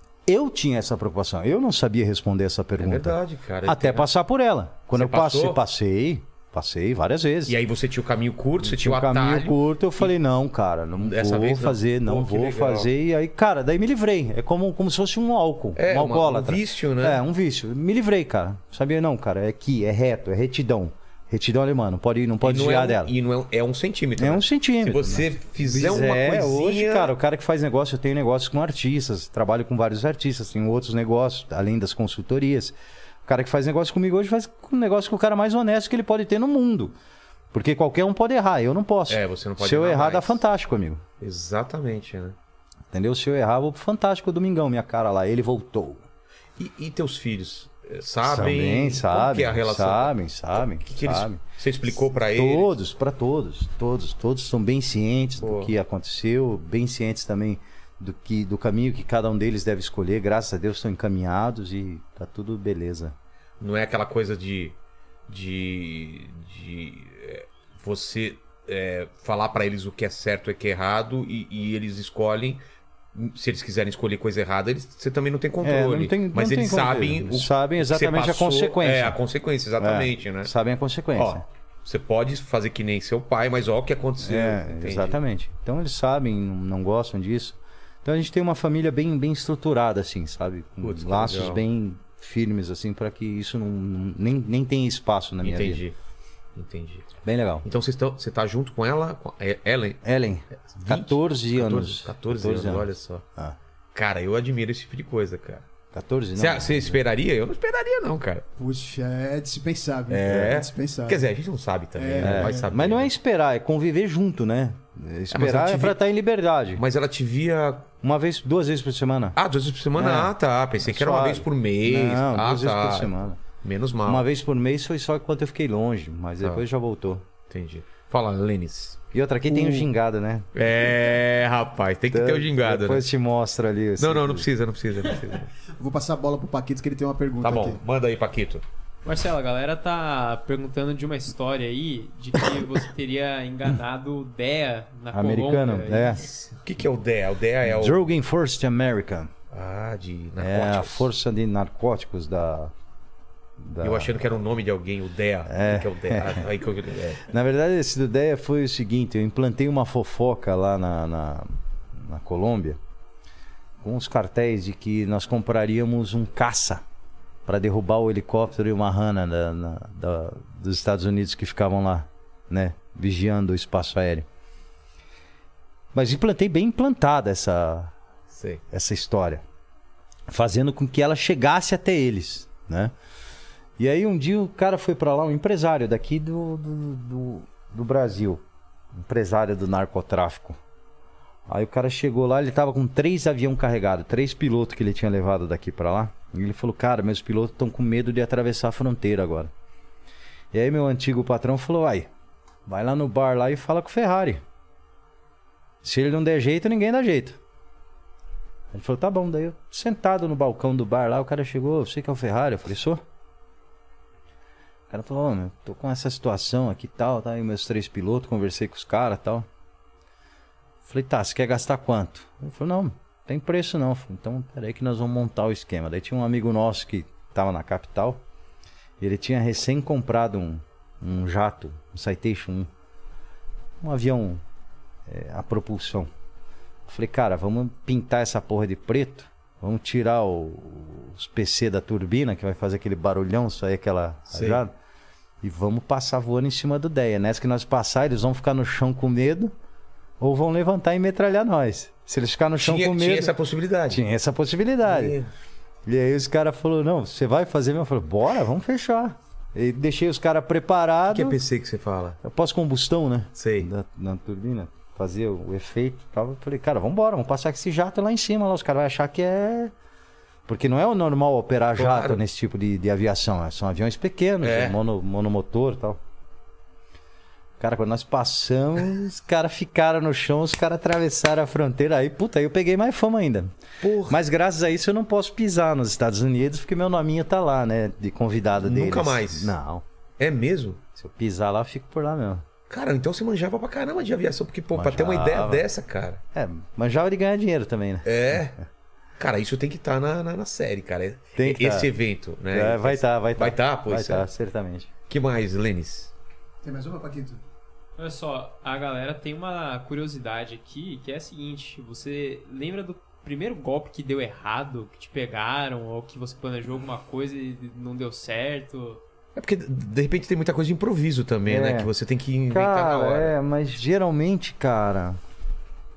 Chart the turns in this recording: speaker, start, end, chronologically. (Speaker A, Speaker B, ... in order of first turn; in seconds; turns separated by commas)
Speaker A: 0.3-7.5, Speaker B: 2.8-4.1, Speaker B: 4.9-5.6, Speaker B: 7.5-10.1, Speaker A: 8.6-23.1, Speaker B: 11.0-12.9, Speaker B: 15.8-17.2, Speaker B: 22.4-27.1, Speaker A: 24.2-32.8, Speaker A: 33.3-36.9, Speaker A: 37.5-41.0, Speaker B: 39.1-40.4, Speaker B: 41.2-42.4, Speaker A: 42.9-46.0, Speaker B: 46.6-52.7, Speaker A: 48.2-51.4, Speaker A: 52.2-63.1, Speaker B: 55.4-55.8, Speaker B: 63.6-64.8, Speaker B: 65.3-72.6, Speaker B: 73.2-80.5, Speaker A: 75.6-79.2, Speaker A: 79.8-81.4, Speaker B: 81.2-85.2, Speaker A: 84.2-95.8, Speaker B: 90.8-91.6, Speaker B: 95.4-96.0, Speaker B: 96.5-97.1, Speaker A: 97.2-97.7, Speaker B: 97.6-100.0, Speaker A: 100.0-103.6, Speaker B: 100.7-103.2, Speaker B: 103.9-105.7, Speaker A: 105.9-107.0, Speaker B: 106.4-108.4, Speaker C: 108.6-111.3, Speaker B: 110.1-113.1, Speaker C: 112.0-112.7, Speaker A: 112.2-116.8, Speaker B: 115.3-116.0, Speaker B: 116.8-117.9, Speaker A: 118.0-119.4, Speaker B: 119.4-124.3, Speaker A: 120.0-123.4, Speaker A: 124.0-127.2, Speaker B: 127.5-129.9, Speaker A: 129.1-130.5, Speaker B: 130.6-133.1, Speaker A: 132.1-134.5, Speaker B: 134.0-135.5, Speaker C: 135.8-137.8, Speaker B: 137.4-138.6, Speaker D: 139.1-146.3, Speaker A: 145.1-146.2, Speaker B: 146.5-148.0, Speaker A: 147.7-149.3, Speaker B: 149.5-151.1, Speaker A: 150.4-152.7, Speaker A: 153.6-154.1, Speaker B: 153.8-157.2, Speaker A: 155.5-156.5, Speaker A: 157.2-162.8, Speaker A: 163.8-166.8, Speaker A: 167.5-174.3, Speaker A: 175.9-177.9, Speaker B: 178.3-178.6, Speaker A: 178.7-179.4, Speaker A: 180.3-182.9, Speaker A: 183.8-188.4, Speaker A: 189.0-190.6, Speaker A: 191.5-199.5, Speaker A: 200.5-202.1, Speaker A: 202.7-204.4, Speaker A: 205.8-207.4, Speaker A: 208.7-213.0, Speaker A: 214.9-219.5, Speaker A: 220.8-228.2, Speaker A: 229.0-232.7, Speaker A: 233.8-234.4, Speaker A: 235.1-236.1, Speaker A: 236.9-244.7, Speaker B: 244.3-244.6, Speaker A: 245.4-249.5, Speaker A: 250.2-253.3, Speaker B: 252.6-254.0, Speaker A: 253.9-255.2, Speaker B: 254.8-255.3, Speaker A: 255.9-261.4, Speaker B: 261.1-262.2, Speaker A: 262.2-269.7, Speaker B: 263.4-263.7, Speaker A: 270.5-276.0, Speaker B: 271.8-272.2, Speaker B: 274.4-274.8, Speaker A: 277.6-283.5, Speaker B: 283.8-284.2, Speaker A: 284.1-289.8, Speaker B: 288.6-289.6, Speaker B: 290.2-290.8, Speaker A: 290.9-292.4, Speaker B: 292.7-296.2, Speaker A: 294.7-295.6, Speaker A: 296.3-298.4, Speaker B: 298.0-298.6, Speaker B: 299.2-304.3, Speaker A: 301.4-301.9, Speaker A: 302.5-304.9, Speaker B: 305.1-306.1, Speaker C: 306.6-307.4, Speaker D: 308.0-319.0, Speaker B: 319.4-323.4, Speaker A: 321.5-321.9, Speaker A: 322.5-325.2